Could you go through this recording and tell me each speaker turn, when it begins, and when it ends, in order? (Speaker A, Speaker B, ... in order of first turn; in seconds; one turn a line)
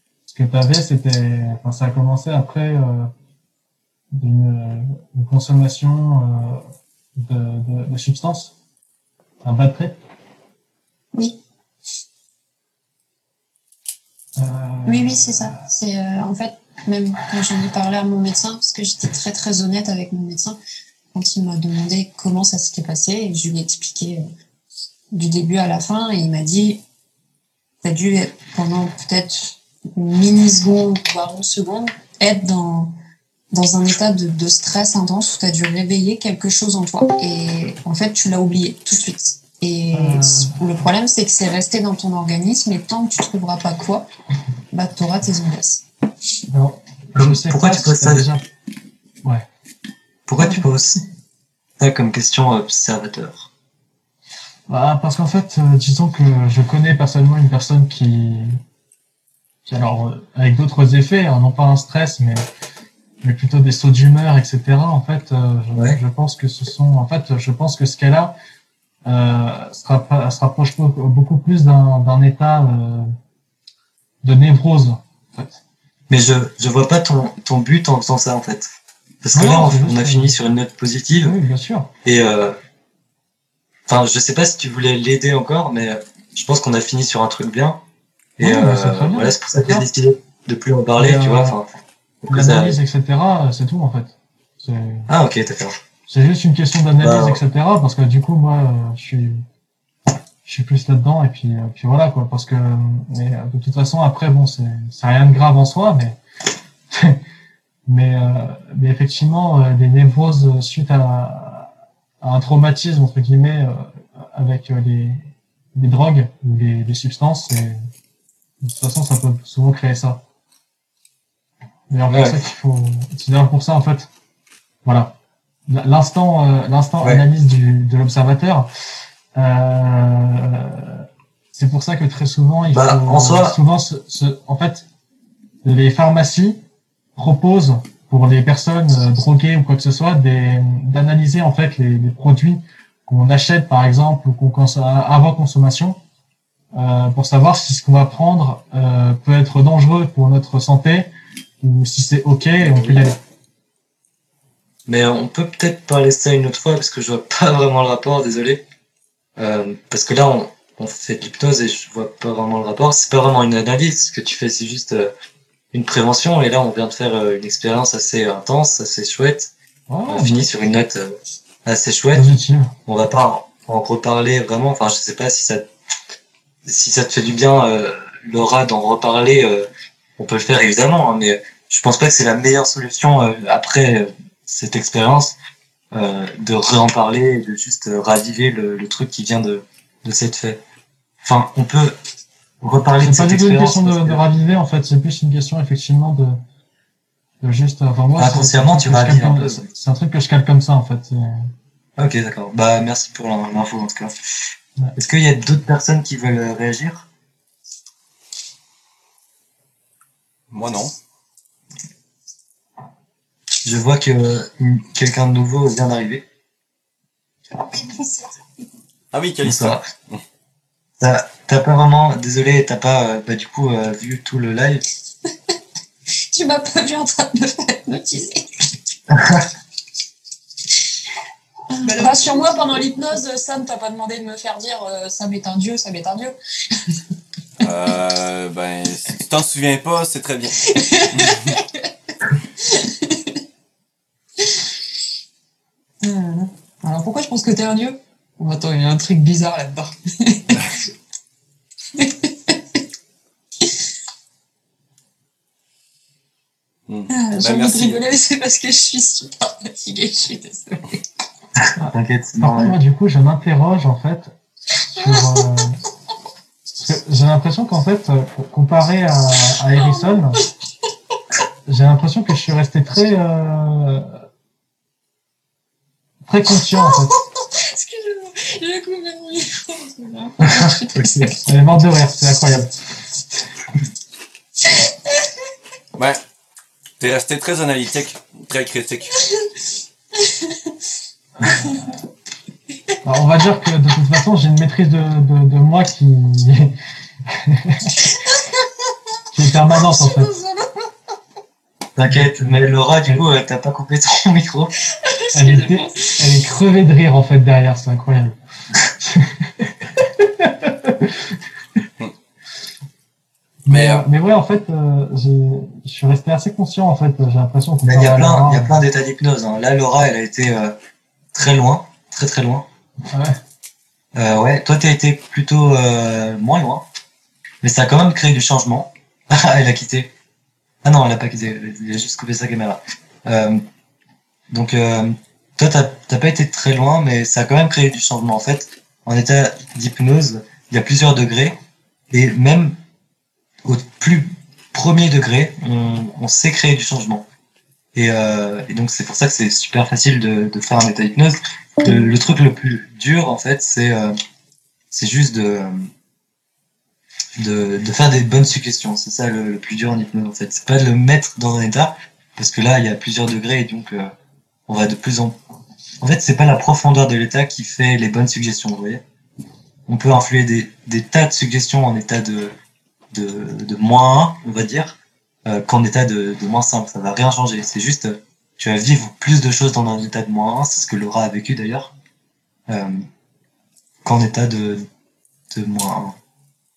Speaker A: 0.3-3.1
Speaker A: 4.1-6.6
Speaker A: 7.2-8.5
Speaker A: 9.4-10.0
Speaker A: 14.4-15.6
Speaker B: 14.9-20.6
Speaker B: 21.1-24.3
Speaker B: 25.1-26.8
Speaker B: 27.8-32.9
Speaker B: 33.5-44.1
Speaker A: 39.9-40.6
Speaker B: 44.7-45.9
Speaker A: 46.5-48.4
Speaker C: 47.2-48.3
Speaker C: 50.3-51.0
Speaker B: 50.4-50.6
Speaker C: 51.8-53.5
Speaker A: 54.7-58.6
Speaker A: 59.7-62.5
Speaker A: 63.2-68.3
Speaker A: 69.1-73.1
Speaker A: 74.2-75.6
Speaker C: 76.1-78.7
Speaker C: 79.2-81.4
Speaker A: 79.3-80.4
Speaker A: 81.2-81.9
Speaker C: 82.0-82.6
Speaker C: 83.9-87.8
Speaker C: 88.4-91.7
Speaker A: 88.4-89.8
Speaker A: 91.0-91.6
Speaker C: 92.2-92.8
Speaker A: 92.3-95.1
Speaker C: 95.1-95.8
Speaker A: 96.1-99.4
Speaker C: 97.0-97.4
Speaker A: 100.5-106.2
Speaker A: 106.9-107.2
Speaker A: 107.9-117.8
Speaker A: 118.6-120.2
Speaker A: 121.9-124.1
Speaker C: 122.1-122.4
Speaker A: 124.8-125.1
Speaker A: 125.7-128.7
Speaker C: 127.0-127.3
Speaker A: 129.4-134.8
Speaker C: 132.7-133.6
Speaker A: 135.6-136.6
Speaker A: 137.2-146.0
Speaker A: 146.7-151.1
Speaker A: 151.6-153.2
Speaker C: 152.6-153.0
Speaker C: 154.9-158.6
Speaker C: 159.4-165.1
Speaker C: 165.7-169.5
Speaker A: 169.9-170.5
Speaker C: 170.1-172.2
Speaker A: 172.1-172.7
Speaker C: 172.9-175.7
Speaker C: 176.7-185.4
Speaker C: 185.9-190.6
Speaker C: 191.2-192.0
Speaker C: 192.6-194.2
Speaker A: 193.0-196.4
Speaker A: 197.4-201.5
Speaker C: 198.2-199.7
Speaker C: 202.0-204.2
Speaker C: 205.0-207.1
Speaker D: 210.5-210.9
Speaker C: 213.6-216.2
Speaker B: 217.6-218.4
Speaker D: 219.1-220.2
Speaker C: 219.4-219.8
Speaker C: 221.0-224.8
Speaker B: 226.3-228.5
Speaker C: 229.1-229.5
Speaker B: 231.7-237.0
Speaker D: 232.0-232.3
Speaker D: 237.6-240.6
Speaker B: 240.6-241.9
Speaker D: 241.1-241.5
Speaker B: 242.6-243.3
Speaker B: 246.0-250.7
Speaker B: 252.0-252.6
Speaker D: 256.9-258.0
Speaker B: 257.1-261.0
Speaker C: 261.6-262.8
Speaker A: 261.8-264.3
Speaker A: 264.9-265.8
Speaker B: 265.0-265.4
Speaker A: 266.8-270.4
Speaker B: 269.7-270.5
Speaker A: 271.7-274.1
Speaker A: 276.2-277.2
Speaker B: 276.8-281.4
Speaker C: 280.4-281.3
Speaker A: 281.4-282.8
Speaker B: 284.7-285.3
Speaker D: 287.0-289.2
Speaker B: 289.2-289.5
Speaker B: 290.2-290.7
Speaker A: 291.4-291.8
Speaker B: 291.4-291.8
Speaker A: 293.0-296.8
Speaker A: 297.3-297.9
Speaker B: 298.0-298.7
Speaker A: 299.3-300.3
Speaker B: 299.8-300.9
Speaker C: 302.0-304.7
Speaker A: 302.1-303.2
Speaker B: 304.8-306.3
Speaker A: 305.3-311.4
Speaker A: 313.7-318.8
Speaker D: 313.7-314.1
Speaker C: 317.9-320.7
Speaker C: 321.3-322.7
Speaker A: 323.1-323.4
Speaker C: 324.1-326.9
Speaker C: 327.6-330.1
Speaker C: 330.8-333.6
Speaker C: 334.5-341.6
Speaker C: 342.1-342.8
Speaker C: 343.6-347.2
Speaker C: 347.9-354.1
Speaker C: 354.9-355.9
Speaker C: 357.4-364.1
Speaker C: 364.7-365.4
Speaker C: 366.0-369.0
Speaker C: 369.9-372.6
Speaker C: 373.1-381.9
Speaker C: 382.7-383.0
Speaker C: 384.0-384.8
Speaker C: 385.5-386.2